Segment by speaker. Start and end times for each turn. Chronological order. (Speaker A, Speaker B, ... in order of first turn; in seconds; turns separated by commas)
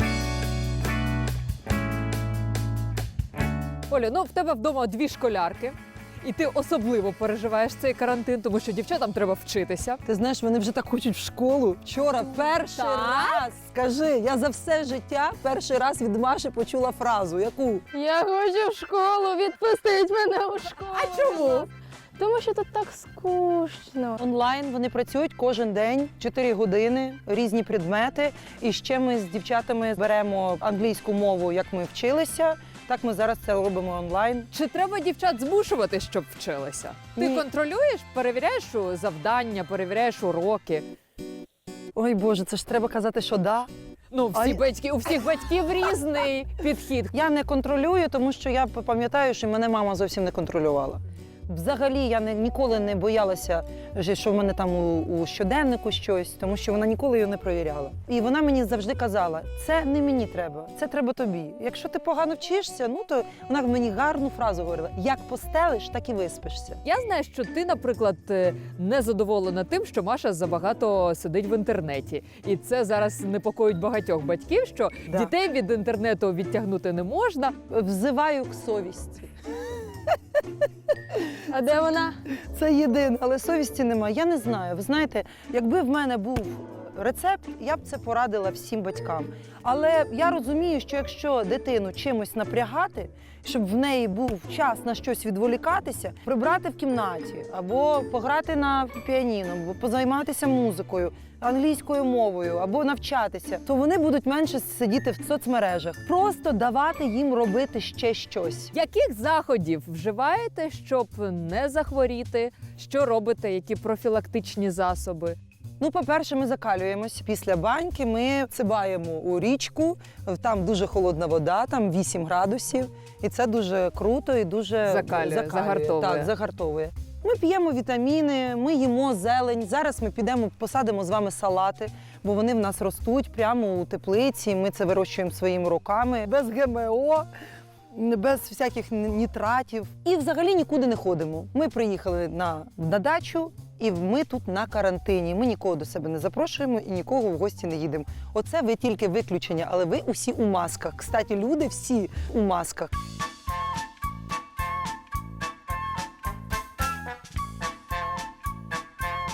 Speaker A: 3.9-10.0, Speaker B: 10.1-17.9, Speaker A: 12.7-13.4, Speaker C: 17.9-24.0, Speaker A: 20.7-21.7, Speaker B: 24.0-34.5, Speaker A: 34.5-40.9, Speaker B: 37.2-37.5, Speaker B: 42.0-43.7, Speaker A: 44.1-47.1, Speaker B: 44.3-44.6, Speaker B: 47.1-66.8, Speaker A: 66.8-77.5, Speaker B: 75.1-75.3, Speaker B: 77.7-80.1, Speaker C: 81.5-82.2, Speaker B: 82.4-108.7, Speaker A: 108.7-115.4, Speaker B: 115.8-137.3, Speaker A: 124.9-126.3, Speaker B: 137.9-152.9